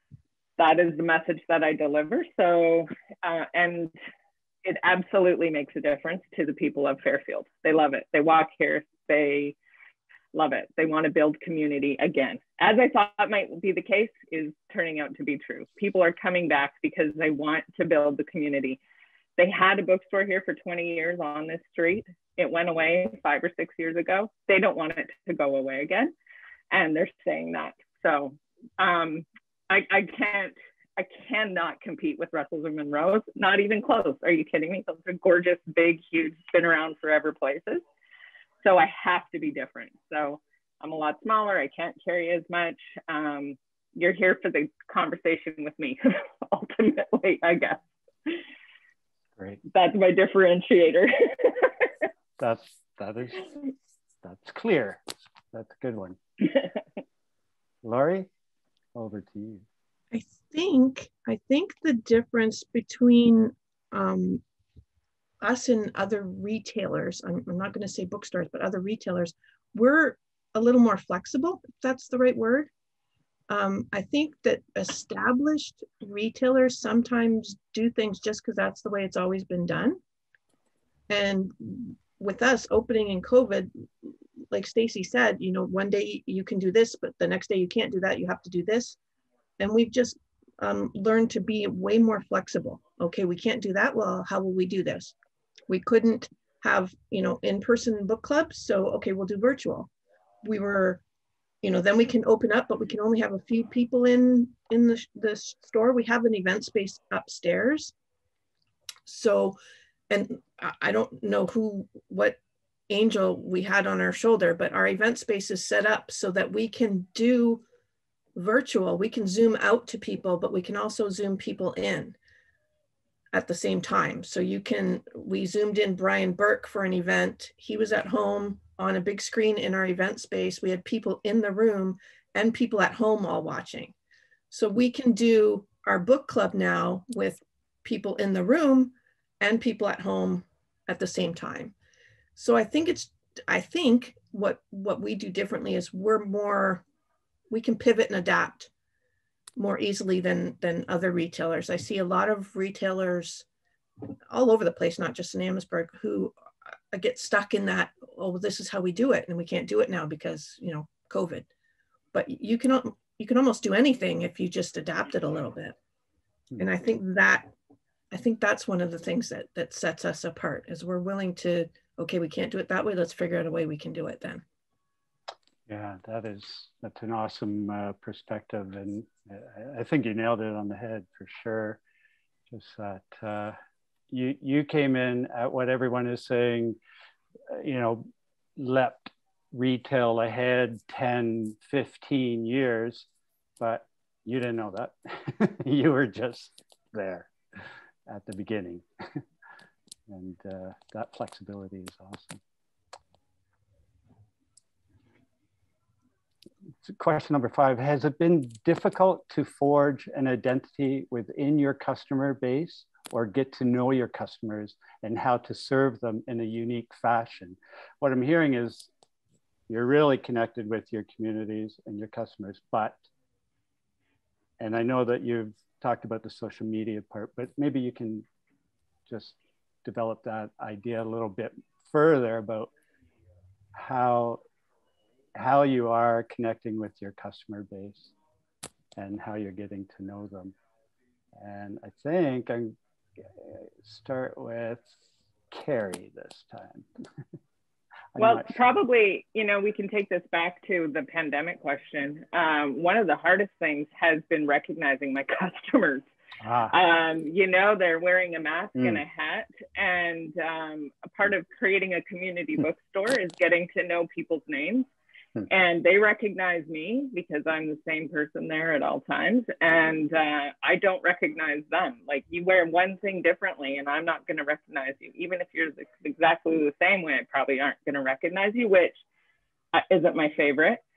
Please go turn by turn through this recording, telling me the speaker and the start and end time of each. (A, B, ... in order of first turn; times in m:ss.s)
0:00.6-0:03.9 A
0:04.6-0:09.6 A
0:10.3-0:18.8 A
0:19.4-0:26.1 A
0:26.7-0:37.8 A
0:38.6-0:48.4 A
0:49.4-0:49.6 B
0:49.7-0:51.7 A
0:52.4-0:53.5 B
0:54.2-0:56.2 B
0:57.8-0:58.3 B
0:59.0-0:59.7 B
1:00.1-1:04.4 C
1:05.4-1:12.7 C
1:13.5-1:20.0 C
1:21.1-1:23.7 C
1:24.5-1:29.0 C
1:29.6-1:35.1 C
1:35.7-1:39.9 C
1:40.4-1:41.0 C
1:41.6-1:47.9 C
1:49.1-1:49.6 C
1:50.1-1:52.4 C
1:52.9-1:57.6 C
1:58.4-2:02.2 C
2:03.3-2:13.9 C
2:14.5-2:21.7 C
2:22.4-2:26.8 C
2:27.5-2:28.7 C
2:29.6-2:33.4 C
2:34.3-2:36.3 C
2:36.9-2:41.5 C
2:42.1-2:45.8 C
2:46.6-2:47.5 C
2:48.1-2:54.4 C
2:55.7-3:01.8 B
3:02.5-3:03.6 B
3:04.1-3:06.8 B
3:07.5-3:13.1 B
3:13.6-3:19.2 B
3:20.1-3:22.4 B
3:26.8-3:38.9 B
3:39.7-3:43.1 B
3:44.6-3:48.3 B
3:49.1-3:52.7 B
3:53.7-3:54.4 B
3:55.4-3:58.1 B
3:59.0-4:00.6 B
4:01.3-4:06.9 B
4:08.1-4:08.6 B
4:08.2-4:16.1 A
4:16.4-4:16.7 B
4:16.7-4:24.9 A
4:18.8-4:19.0 B
4:25.5-4:39.0 A
4:39.7-4:40.8 A